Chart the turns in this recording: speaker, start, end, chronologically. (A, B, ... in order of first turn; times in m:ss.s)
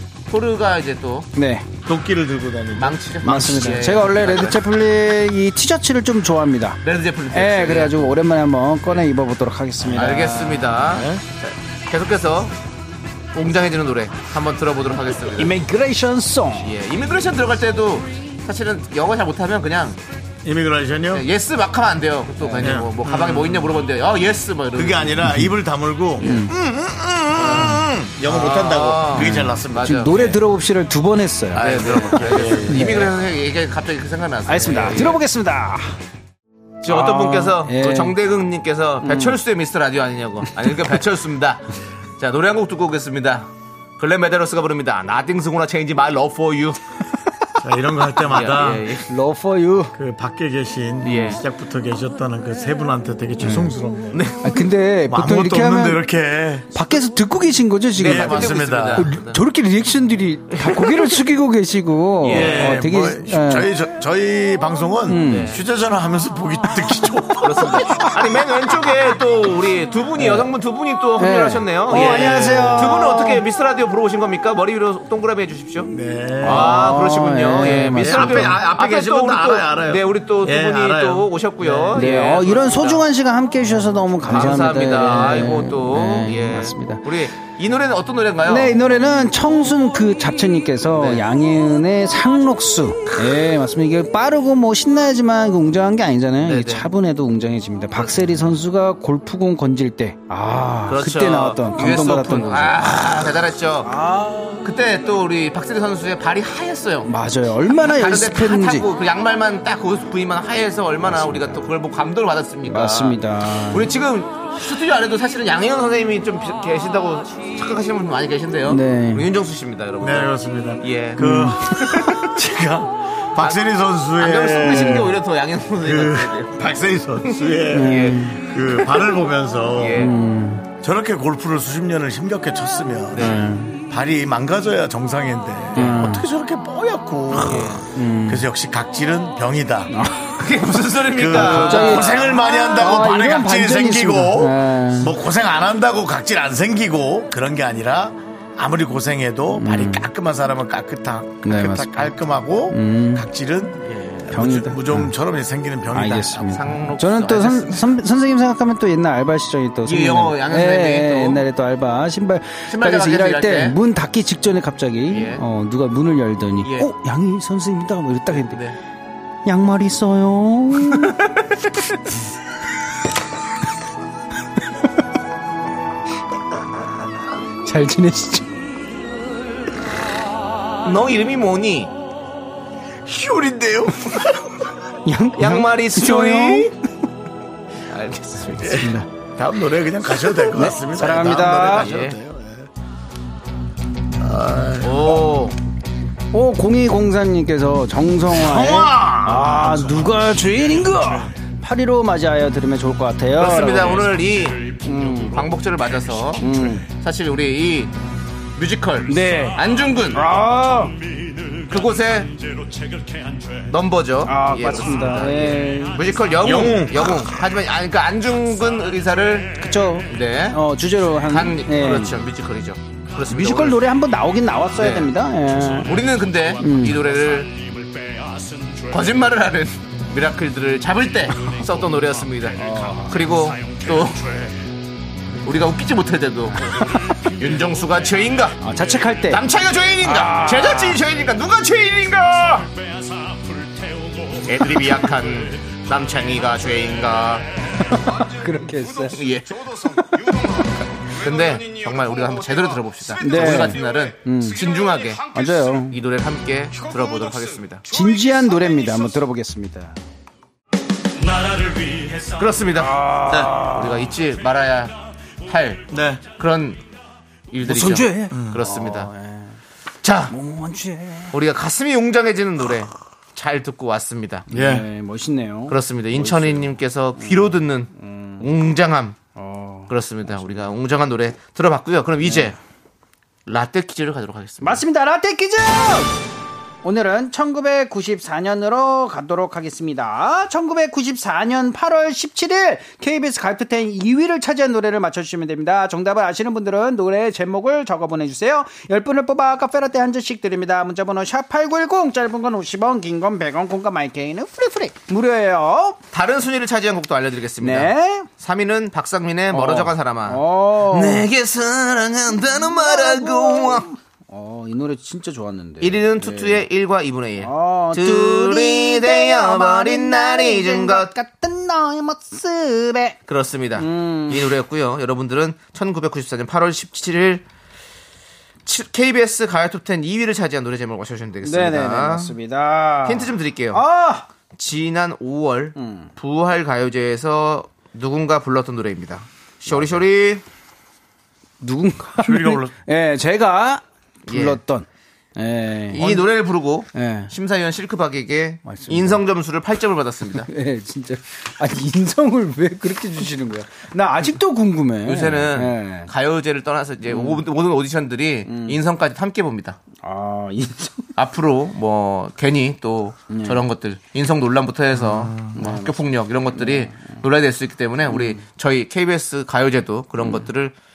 0:00.3-0:01.3 A
0:01.3-0:01.7 B
0:01.8-0:03.6 C
0:02.8-0:04.6 A
0:03.2-0:06.8 B
0:06.8-0:08.1 A
0:07.3-0:11.0 B
0:09.8-0:12.5 A
0:10.9-0:11.2 C
0:13.3-0:15.5 A
0:15.3-0:16.7 B
0:16.6-0:20.0 A
0:20.4-0:21.2 C
0:21.1-0:25.2 A
0:22.4-0:22.8 B
0:22.6-0:23.8 C
0:24.7-0:30.0 C
0:25.2-0:25.5 B
0:26.2-0:26.5 B
0:27.4-0:30.4 A
0:29.1-0:33.1 B
0:31.5-0:32.9 C
0:31.6-0:35.2 A
0:34.4-0:36.0 B
0:36.8-0:41.6 A
0:36.8-0:38.2 B
0:39.0-0:39.4 B
0:42.2-0:46.8 A
0:47.6-0:48.9 C
0:48.3-0:49.1 A
0:49.1-0:49.9 B
0:49.9-0:54.2 C
0:51.0-0:51.4 A
0:54.1-0:54.5 A
0:54.4-0:56.0 B
0:55.1-0:56.7 C
0:56.7-1:03.7 B
0:58.0-0:59.4 A
0:58.0-0:59.1 C
1:02.2-1:02.8 A
1:02.2-1:08.0 C
1:05.1-1:05.6 B
1:05.2-1:05.6 A
1:07.4-1:15.9 A
1:10.2-1:10.5 B
1:11.2-1:13.4 B
1:11.9-1:12.9 C
1:15.8-1:16.9 C
1:16.4-1:18.6 B
1:16.4-1:23.0 A
1:18.0-1:22.0 C
1:21.9-1:27.0 B
1:24.3-1:28.7 A
1:28.4-1:44.7 B
1:31.0-1:31.2 A
1:36.4-1:36.9 A
1:40.9-1:43.9 A
1:44.6-1:47.1 A
1:47.0-1:48.8 B
1:47.8-1:53.2 A
1:51.0-1:51.6 B
1:52.6-1:53.9 B
1:53.7-2:02.3 A
1:58.6-1:59.3 B
2:00.0-2:05.2 C
2:01.2-2:01.6 B
2:03.4-2:06.6 A
2:04.7-2:05.0 B
2:05.8-2:10.1 C
2:07.2-2:08.4 A
2:07.7-2:08.4 B
2:09.8-2:10.1 A
2:09.9-2:10.7 B
2:10.8-2:19.9 C
2:13.1-2:13.4 A
2:13.2-2:13.8 B
2:15.7-2:16.2 B
2:17.3-2:17.9 A
2:17.4-2:18.4 B
2:19.9-2:20.4 B
2:20.4-2:22.5 A
2:21.1-2:36.4 C
2:21.3-2:25.1 B
2:29.5-2:30.1 B
2:31.4-2:32.1 B
2:32.7-2:33.3 B
2:33.8-2:34.3 A
2:34.3-2:35.1 B
2:35.9-2:48.6 B
2:36.4-2:37.8 A
2:39.8-2:41.4 A
2:42.7-2:43.8 A
2:45.1-2:45.4 A
2:46.6-2:46.9 A
2:48.3-2:48.8 A
2:49.4-2:51.2 B
2:57.6-2:58.6 B
3:00.8-3:01.9 A
3:03.0-3:04.5 C
3:05.0-3:06.7 B
3:05.4-3:06.7 A
3:07.9-3:08.9 A
3:08.6-3:12.7 C
3:08.8-3:09.1 B
3:10.5-3:11.9 B
3:11.6-3:12.2 A
3:14.2-3:15.4 C
3:14.8-3:15.6 A
3:16.3-3:24.1 B
3:18.3-3:20.2 C
3:23.3-3:24.7 A
3:24.0-3:26.7 D
3:24.8-3:25.4 B
3:25.3-3:27.9 A
3:26.4-3:26.9 B
3:28.6-3:30.2 A
3:29.1-3:29.6 B
3:29.6-3:33.8 D
3:30.1-3:30.9 B
3:31.7-3:32.3 A
3:33.7-3:40.6 A
3:34.2-3:36.0 B
3:36.4-3:37.2 C
3:36.5-3:37.5 D
3:38.6-3:38.9 D
3:39.6-3:42.2 B
3:41.2-3:43.8 A
3:43.3-3:46.0 B
3:44.8-3:45.1 A
3:45.5-3:49.1 D
3:45.8-3:47.5 A
3:46.6-3:47.0 B
3:48.9-3:54.2 A
3:51.5-3:54.6 D
3:52.6-3:53.2 B
3:55.4-3:56.6 A
3:56.6-3:58.2 D
3:57.3-3:58.6 A
3:58.6-3:59.4 B
3:59.3-4:02.7 A
4:00.0-4:01.0 B
4:02.7-4:05.8 D
4:04.4-4:07.5 A
4:07.8-4:09.2 B
4:08.2-4:09.0 D
4:09.1-4:09.7 A
4:10.3-4:15.6 D
4:11.1-4:17.8 A
4:13.2-4:14.6 B
4:15.3-4:16.0 B
4:16.8-4:18.9 D
4:17.9-4:19.9 B
4:21.2-4:22.6 D
4:22.4-4:23.0 A
4:22.7-4:24.1 B
4:23.3-4:23.5 C
4:23.6-4:24.9 A
4:25.4-4:25.8 A
4:25.9-4:26.2 C
4:26.3-4:26.8 A
4:27.5-4:29.1 A
4:27.6-4:29.6 B
4:28.3-4:28.6 C
4:30.0-4:30.4 A
4:30.3-4:31.3 B
4:31.3-4:34.4 A
4:34.5-4:34.8 C
4:34.5-4:38.5 B
4:35.7-4:39.2 A
4:39.3-4:40.6 B
4:39.9-4:42.6 A
4:42.2-4:42.5 B
4:43.5-4:44.8 A
4:44.6-4:46.2 B
4:46.8-5:06.0 B
5:06.1-5:13.9 A
5:07.6-5:08.3 B
5:09.5-5:11.3 B
5:12.4-5:16.6 B
5:15.8-5:21.1 A
5:17.4-5:23.2 B
5:23.3-5:27.4 A
5:23.8-5:24.6 B
5:28.6-5:32.3 A
5:31.4-5:34.3 B
5:33.0-5:33.8 A
5:34.5-5:40.4 A
5:35.8-5:36.1 B
5:41.6-5:46.3 B
5:42.2-5:42.7 C
5:44.3-5:44.6 A
5:45.9-5:50.5 A
5:46.9-5:47.3 B
5:48.6-5:49.2 B
5:50.4-5:56.1 B
5:55.0-5:59.8 A
5:57.1-5:57.4 B
5:58.5-5:58.8 B
6:00.0-6:01.1 B
6:01.2-6:10.7 A
6:03.3-6:03.6 B
6:05.0-6:05.6 C
6:05.5-6:06.0 B
6:06.5-6:07.0 B
6:08.1-6:08.4 B